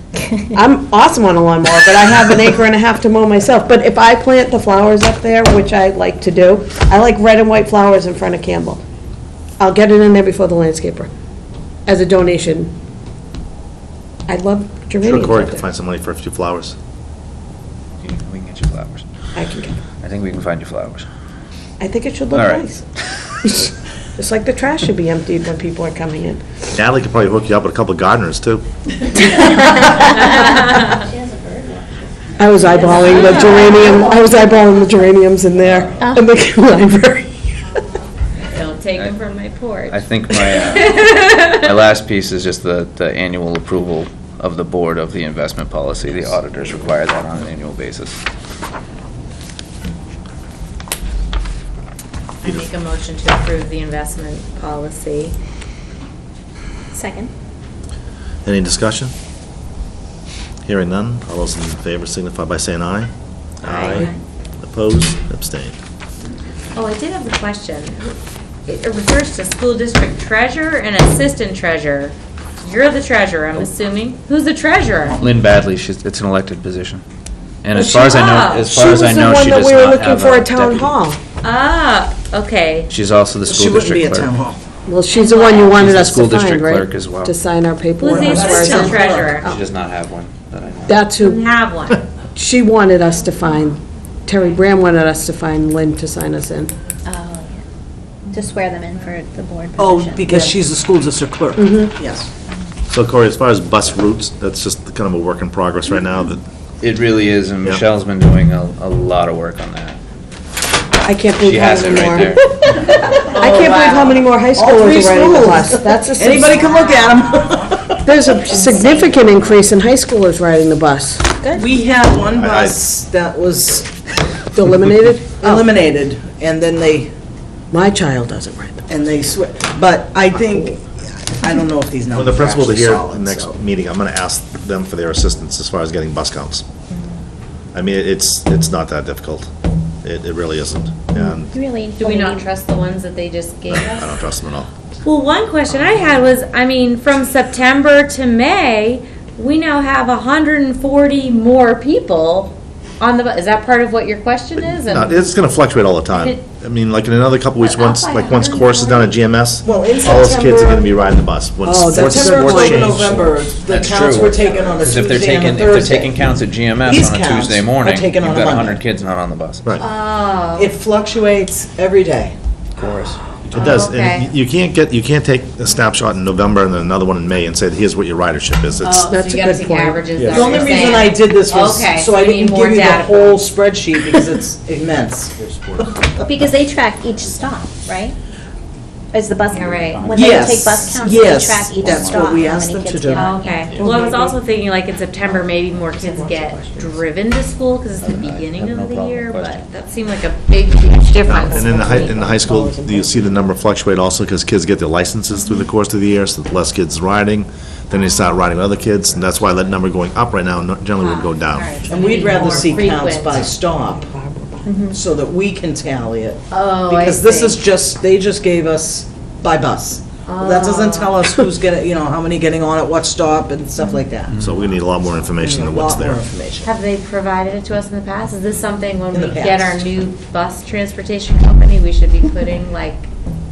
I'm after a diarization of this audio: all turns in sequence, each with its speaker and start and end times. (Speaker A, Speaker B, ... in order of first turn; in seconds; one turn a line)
Speaker A: 0.5-8.8
Speaker A: 9.6-11.1
Speaker A: 11.9-12.7
Speaker A: 14.3-15.7
Speaker B: 15.0-16.8
Speaker C: 18.0-19.1
Speaker A: 19.4-19.8
Speaker C: 20.0-21.1
Speaker A: 21.8-22.9
Speaker C: 22.3-22.7
Speaker A: 23.4-26.4
Speaker B: 26.7-28.6
Speaker D: 29.1-31.9
Speaker A: 29.3-30.5
Speaker E: 30.1-31.0
Speaker A: 32.4-37.4
Speaker D: 32.7-34.3
Speaker D: 36.0-36.2
Speaker E: 38.4-41.7
Speaker C: 39.9-48.2
Speaker E: 52.4-55.4
Speaker D: 56.9-57.3
Speaker B: 58.5-59.1
Speaker B: 60.7-63.1
Speaker E: 63.6-64.0
Speaker B: 63.6-65.8
Speaker E: 66.8-68.2
Speaker E: 68.7-75.2
Speaker C: 75.2-77.0
Speaker C: 77.6-80.9
Speaker A: 77.8-78.0
Speaker E: 77.9-78.7
Speaker A: 78.7-81.2
Speaker E: 81.4-82.9
Speaker C: 82.9-84.3
Speaker F: 83.5-84.6
Speaker A: 84.9-89.6
Speaker C: 85.5-87.3
Speaker E: 88.0-89.5
Speaker F: 88.0-89.4
Speaker C: 89.4-91.1
Speaker A: 90.9-91.5
Speaker E: 91.1-92.0
Speaker A: 92.3-96.7
Speaker D: 97.1-97.6
Speaker D: 98.3-100.5
Speaker F: 99.8-102.3
Speaker A: 101.6-101.9
Speaker B: 102.9-106.4
Speaker C: 106.8-110.0
Speaker A: 111.0-116.8
Speaker C: 111.3-112.4
Speaker E: 112.8-114.3
Speaker F: 114.5-118.1
Speaker A: 118.0-121.3
Speaker D: 118.7-119.1
Speaker F: 121.5-124.0
Speaker B: 122.3-122.8
Speaker A: 124.5-125.7
Speaker F: 125.4-127.1
Speaker A: 127.7-128.9
Speaker F: 128.9-133.6
Speaker B: 132.1-136.7
Speaker E: 136.9-137.2
Speaker B: 137.7-139.5
Speaker B: 140.0-141.5
Speaker D: 141.2-142.5
Speaker E: 142.0-144.2
Speaker B: 143.7-144.7
Speaker E: 145.0-155.2
Speaker B: 154.9-163.9
Speaker E: 156.1-156.4
Speaker E: 157.6-159.2
Speaker A: 159.7-160.9
Speaker A: 161.7-163.0
Speaker F: 161.9-166.2
Speaker C: 163.7-169.7
Speaker F: 166.8-168.8
Speaker E: 169.8-170.7
Speaker F: 170.6-172.3
Speaker C: 172.8-173.2
Speaker B: 173.5-179.1
Speaker E: 173.5-174.3
Speaker E: 178.8-183.4
Speaker A: 179.1-180.1
Speaker C: 180.2-180.5
Speaker F: 180.3-186.3
Speaker A: 184.0-184.3
Speaker D: 186.2-188.2
Speaker D: 189.1-193.7
Speaker E: 189.5-190.2
Speaker F: 190.1-193.3
Speaker E: 193.1-202.3
Speaker A: 193.7-194.4
Speaker A: 195.2-197.1
Speaker C: 198.0-199.7
Speaker B: 201.3-211.8
Speaker A: 201.4-203.5
Speaker E: 211.0-213.4
Speaker F: 211.9-214.1
Speaker A: 212.2-212.7
Speaker A: 213.8-214.7
Speaker D: 214.7-215.0
Speaker F: 214.9-224.4
Speaker E: 216.5-217.6
Speaker E: 220.2-221.2
Speaker B: 224.4-226.2
Speaker F: 225.4-226.7
Speaker E: 226.6-233.1
Speaker F: 229.1-229.8